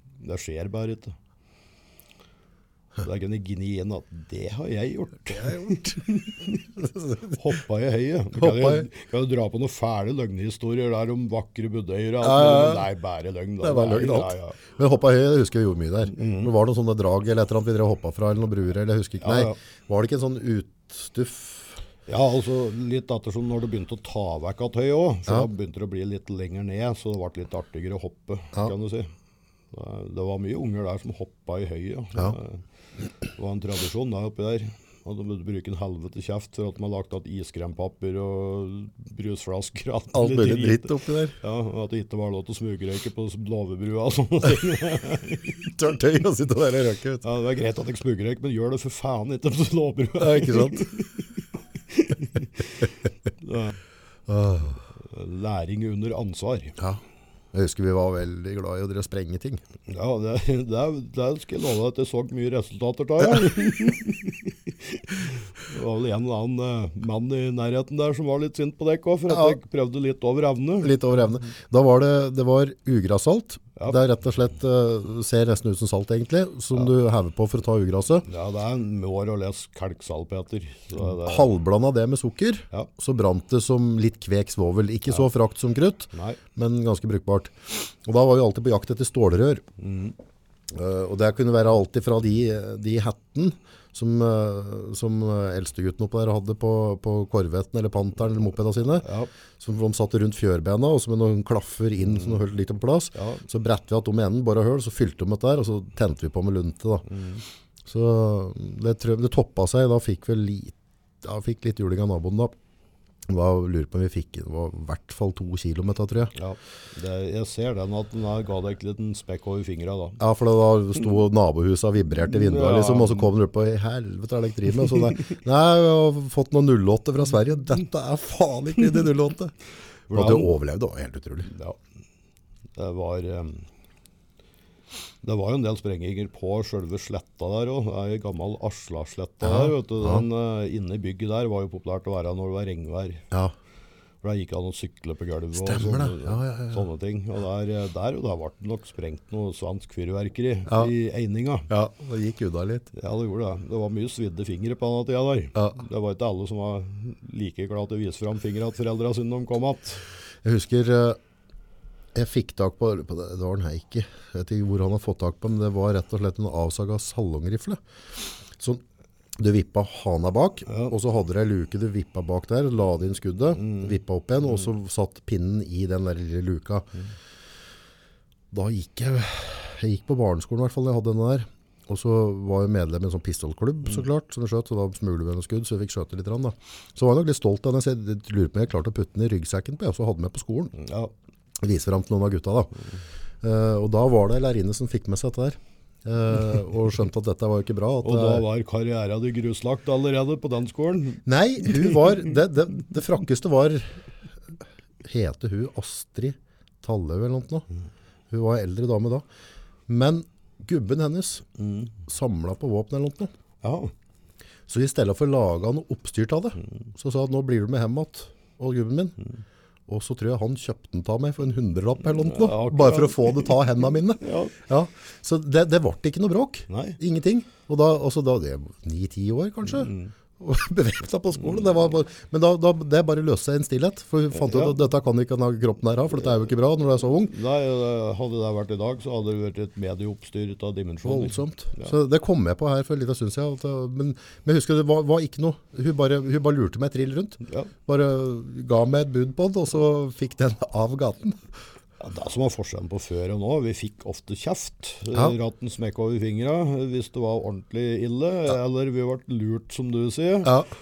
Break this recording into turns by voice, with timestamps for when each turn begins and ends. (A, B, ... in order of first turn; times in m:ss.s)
0:00.2-0:01.2 A
0:03.0-0:06.6 A
0:05.3-0:06.0 B
0:06.8-0:07.4 B
0:07.3-0:14.6 A
0:08.4-0:08.9 B
0:12.2-0:12.9 B
0:13.6-0:21.8 B
0:16.1-0:16.5 A
0:19.2-0:19.6 A
0:22.1-0:29.1 A
0:29.7-0:32.6 A
0:33.4-0:45.7 A
0:40.1-0:41.3 B
0:45.6-0:47.2 B
0:47.2-0:53.7 A
0:50.2-0:50.9 B
0:54.3-0:54.8 B
0:55.0-0:56.8 A
0:57.5-0:59.6 B
0:59.9-1:11.0 A
1:09.3-1:09.6 B
1:10.8-1:18.2 B
1:18.2-1:21.5 A
1:21.0-1:29.6 B
1:26.1-1:26.4 A
1:29.8-1:30.1 A
1:30.7-1:39.0 B
1:39.0-1:39.3 A
1:39.6-1:47.1 B
1:43.1-1:43.4 A
1:47.1-1:47.4 A
1:47.8-1:52.5 B
1:53.3-1:56.3 B
1:56.3-2:00.2 A
2:00.2-2:09.5 B
2:02.2-2:03.3 A
2:10.1-2:10.5 A
2:10.1-2:11.5 B
2:11.5-2:11.8 A
2:12.8-2:13.7 A
2:15.2-2:23.2 A
2:19.4-2:20.2 B
2:24.2-2:31.7 A
2:25.6-2:26.8 B
2:31.7-2:32.9 B
2:32.9-2:40.0 A
2:40.4-2:41.2 B
2:42.1-2:47.8 B
2:48.6-2:48.8 B
2:49.4-2:56.9 B
2:50.7-2:50.9 A
2:53.6-2:53.9 A
2:58.5-3:10.7 B
3:10.8-3:11.1 A
3:11.6-3:12.7 B
3:13.4-3:18.4 B
3:18.0-3:22.0 A
3:21.2-3:24.0 B
3:25.0-3:27.6 B
3:28.3-3:29.2 B
3:29.9-3:31.4 B
3:31.6-3:31.9 A
3:32.0-3:33.3 B
3:33.6-3:33.9 A
3:34.7-3:39.2 B
3:39.9-3:57.3 B
3:42.2-3:43.6 A
3:44.2-3:44.5 A
3:46.7-3:47.0 A
3:49.6-3:50.1 A
3:54.3-3:54.8 A
3:57.3-4:01.9 A
4:01.0-4:11.4 B
4:07.4-4:07.7 A
4:12.0-4:20.6 A
4:20.4-4:20.7 B